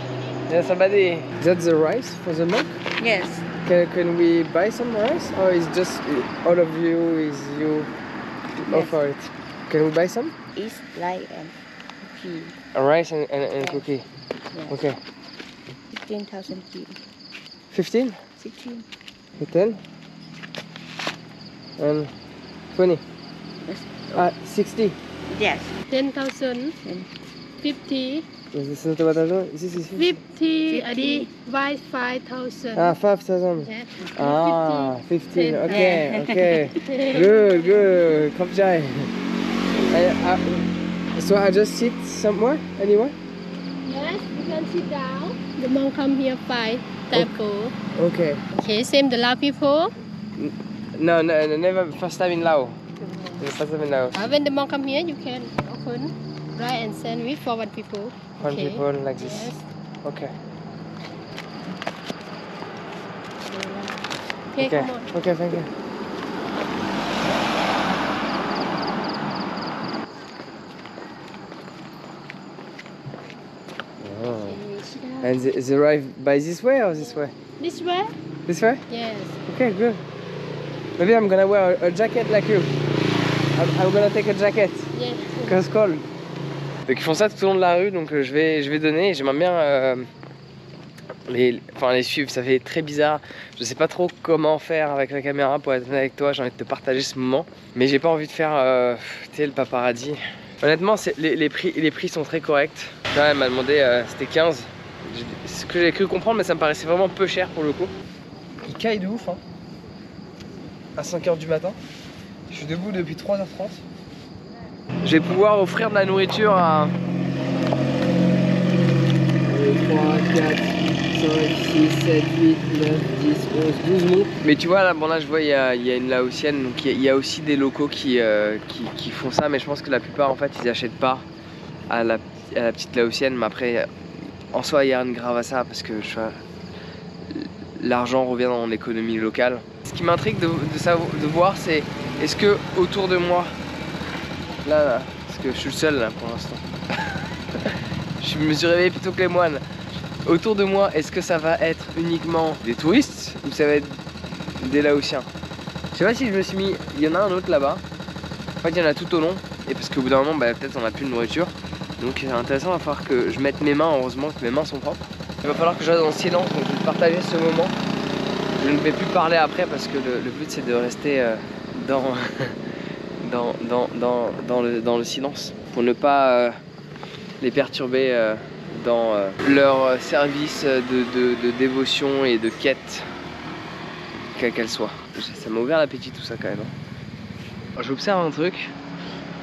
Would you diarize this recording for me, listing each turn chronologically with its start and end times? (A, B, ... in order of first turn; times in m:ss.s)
0:00.5-0:02.8 A
0:03.0-0:03.4 B
0:03.6-0:07.9 A
0:08.6-0:10.3 A
0:08.7-0:09.0 B
0:10.6-0:12.6 B
0:12.7-0:14.0 A
0:13.6-0:13.8 B
0:14.7-0:15.0 A
0:15.9-0:17.0 B
0:17.7-0:18.2 A
0:18.4-0:18.8 B
0:19.4-0:19.8 A
0:21.8-0:22.1 A
0:22.7-0:23.0 A
0:23.6-0:24.2 B
0:24.1-0:25.0 A
0:25.3-0:25.7 B
0:25.9-0:26.7 C
0:27.6-0:28.2 C
0:28.5-0:30.2 A
0:30.0-0:33.0 C
0:30.7-0:31.3 B
0:32.7-0:39.1 A
0:33.6-0:38.1 C
0:35.7-0:36.8 B
0:39.9-0:43.1 A
0:43.8-0:47.7 C
0:48.0-0:48.4 A
0:48.5-0:49.9 C
0:50.4-0:52.8 A
0:53.0-0:53.4 C
0:53.4-0:54.3 A
0:54.1-0:59.6 C
0:58.4-0:59.5 A
1:00.0-1:00.3 A
1:03.4-1:04.0 C
1:04.5-1:05.0 C
1:04.6-1:05.7 A
1:14.0-1:14.6 A
1:14.5-1:15.3 C
1:15.2-1:17.3 A
1:17.6-1:18.1 C
1:18.5-1:18.8 A
1:18.9-1:19.4 C
1:19.4-1:20.0 A
1:21.0-1:22.7 A
1:23.6-1:24.9 A
1:24.9-1:25.6 C
1:25.4-1:26.0 A
1:26.8-1:30.0 A
1:31.3-1:47.9 A
1:48.6-1:49.4 A
1:51.0-1:51.8 A
1:52.5-1:53.8 A
1:55.0-1:56.9 A
1:59.4-2:11.2 A
2:11.9-2:13.9 A
2:14.5-2:16.4 A
2:17.3-2:23.5 A
2:24.6-2:26.6 A
2:28.2-2:29.6 A
2:30.2-2:34.0 A
2:34.6-2:35.3 A
2:35.9-2:37.8 A
2:38.6-2:47.7 A
2:48.6-2:52.5 A
2:53.2-2:56.6 A
2:57.4-3:03.0 A
3:04.4-3:06.7 A
3:07.8-3:08.7 A